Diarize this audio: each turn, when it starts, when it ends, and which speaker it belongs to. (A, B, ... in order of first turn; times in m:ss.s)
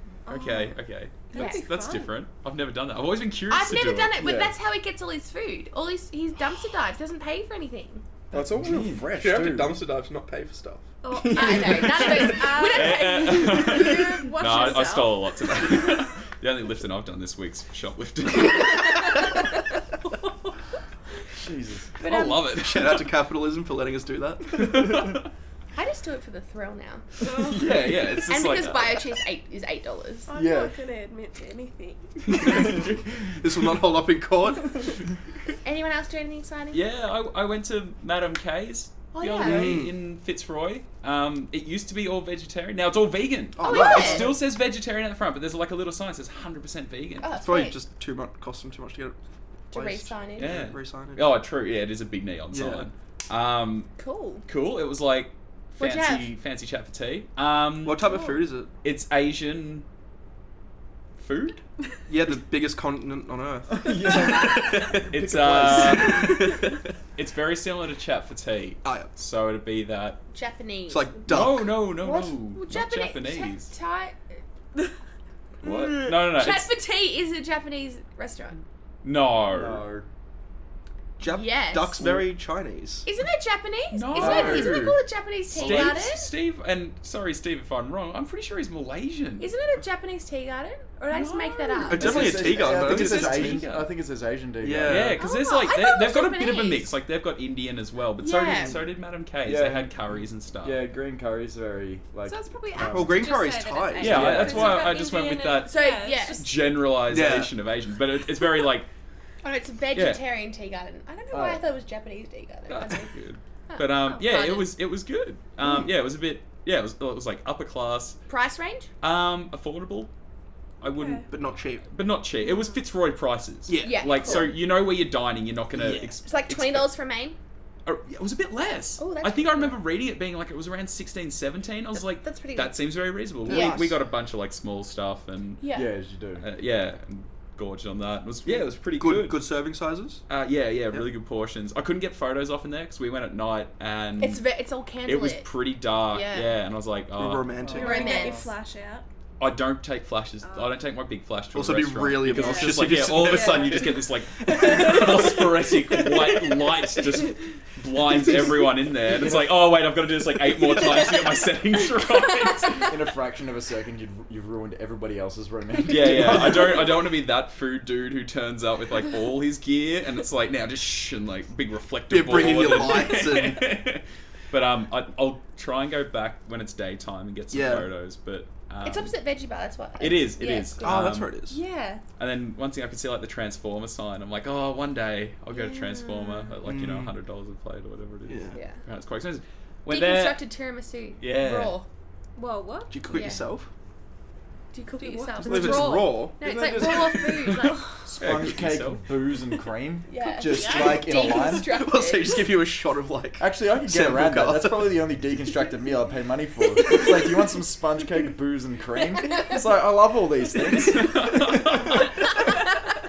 0:00.3-0:00.8 A
0:00.3-0:04.2 B
0:01.3-0:02.1 A
0:01.3-0:01.6 C
0:03.5-0:08.1 C
0:04.2-0:04.5 D
0:08.3-0:09.8 D
0:08.6-0:09.0 B
0:09.1-0:10.9 E
0:11.0-0:15.7 A
0:11.1-0:12.1 D
0:11.3-0:13.7 C
0:12.4-0:19.3 B
0:18.8-0:19.4 A
0:21.4-0:21.9 D
0:22.0-0:23.1 B
0:22.0-0:22.5 C
0:22.5-0:24.8 E
0:24.5-0:25.3 B
0:25.7-0:27.1 C
0:27.2-0:27.7 A
0:27.2-0:29.2 B
0:28.3-0:30.3 C
0:30.3-0:32.7 A
0:30.3-0:30.8 D
0:32.3-0:33.4 B
0:32.5-0:32.8 D
0:32.6-0:32.8 E
0:33.4-0:35.0 E
0:35.6-0:36.8 C
0:36.7-0:47.4 B
0:39.1-0:39.8 C
0:39.4-0:39.9 E
0:43.6-0:44.4 E
0:43.6-0:44.3 C
0:47.2-0:47.8 C
0:47.4-0:49.2 E
0:49.7-0:51.3 E
0:49.7-0:50.6 C
0:50.4-0:53.9 B
0:52.5-0:52.9 E
0:54.0-0:54.4 C
0:54.5-0:58.0 B
0:55.8-0:56.4 C
0:57.8-0:58.7 E
0:58.8-0:59.9 B
1:01.2-1:01.6 B
1:02.1-1:06.9 E
1:03.7-1:06.6 D
1:05.1-1:06.5 B
1:07.2-1:10.2 B
1:08.8-1:09.1 E
1:10.3-1:11.2 C
1:10.9-1:11.9 E
1:11.3-1:13.7 B
1:11.9-1:14.2 C
1:15.6-1:16.2 E
1:15.6-1:16.7 B
1:16.2-1:18.6 C
1:19.0-1:19.8 B
1:19.5-1:20.1 D
1:21.2-1:23.1 E
1:21.2-1:22.1 C
1:23.0-1:26.3 C
1:23.9-1:29.5 B
1:24.2-1:24.9 D
1:25.6-1:25.9 E
1:29.4-1:32.4 C
1:31.1-1:33.9 B
1:31.9-1:33.6 E
1:31.9-1:35.2 D
1:34.6-1:35.2 E
1:34.8-1:40.8 B
1:35.2-1:36.9 C
1:38.2-1:38.8 C
1:38.5-1:38.8 E
1:39.4-1:40.0 D
1:40.6-1:43.4 D
1:42.3-1:46.5 A
1:42.9-1:44.8 E
1:44.0-1:45.8 B
1:44.0-1:44.9 D
1:45.6-1:46.5 C
1:46.3-1:48.9 B
1:47.0-1:47.5 E
1:49.4-1:53.1 C
1:49.9-1:50.2 B
1:51.3-1:51.7 D
1:52.7-1:58.2 B
1:53.7-1:54.7 C
1:58.3-1:58.9 C
1:59.0-2:00.1 B
2:00.8-2:01.3 B
2:00.9-2:01.3 A
2:01.3-2:01.8 E
2:01.8-2:06.9 B
2:03.7-2:04.5 E
2:03.8-2:04.5 C
2:05.7-2:06.2 E
2:06.2-2:07.4 C
2:07.8-2:15.6 B
2:09.0-2:09.8 C
2:11.9-2:12.9 C
2:13.4-2:14.0 E
2:13.5-2:13.8 C
2:15.6-2:15.9 C
2:15.7-2:16.5 D
2:16.4-2:19.4 B
2:18.5-2:20.2 E
2:20.3-2:24.4 B
2:24.2-2:25.5 C
2:25.0-2:27.6 B
2:26.1-2:26.6 C
2:27.2-2:28.1 E
2:27.6-2:28.5 D
2:27.7-2:29.0 A
2:27.7-2:28.5 C
2:29.4-2:42.9 B
2:30.4-2:30.8 A
2:31.5-2:35.4 E
2:32.2-2:34.0 A
2:34.5-2:35.0 A
2:36.0-2:36.4 E
2:38.2-2:39.5 E
2:40.6-2:41.2 E
2:42.8-2:46.9 D
2:45.8-2:59.2 B
2:46.1-2:46.8 E
2:52.1-2:53.8 E
2:57.5-2:57.9 E
2:58.8-3:02.0 C
3:00.0-3:01.3 B
3:00.8-3:01.6 E
3:02.2-3:10.4 B
3:05.5-3:06.6 C
3:06.7-3:07.1 E
3:08.3-3:08.6 E
3:08.5-3:08.8 C
3:09.9-3:11.9 C
3:11.2-3:11.8 B
3:12.4-3:13.0 A
3:12.9-3:13.7 E
3:13.1-3:13.4 C
3:14.7-3:17.9 C
3:15.0-3:15.4 A
3:15.4-3:17.0 E
3:16.4-3:16.7 D
3:17.2-3:19.1 B
3:18.1-3:21.7 D
3:20.1-3:22.4 C
3:21.0-3:25.0 E
3:23.4-3:31.7 D
3:30.6-3:32.5 B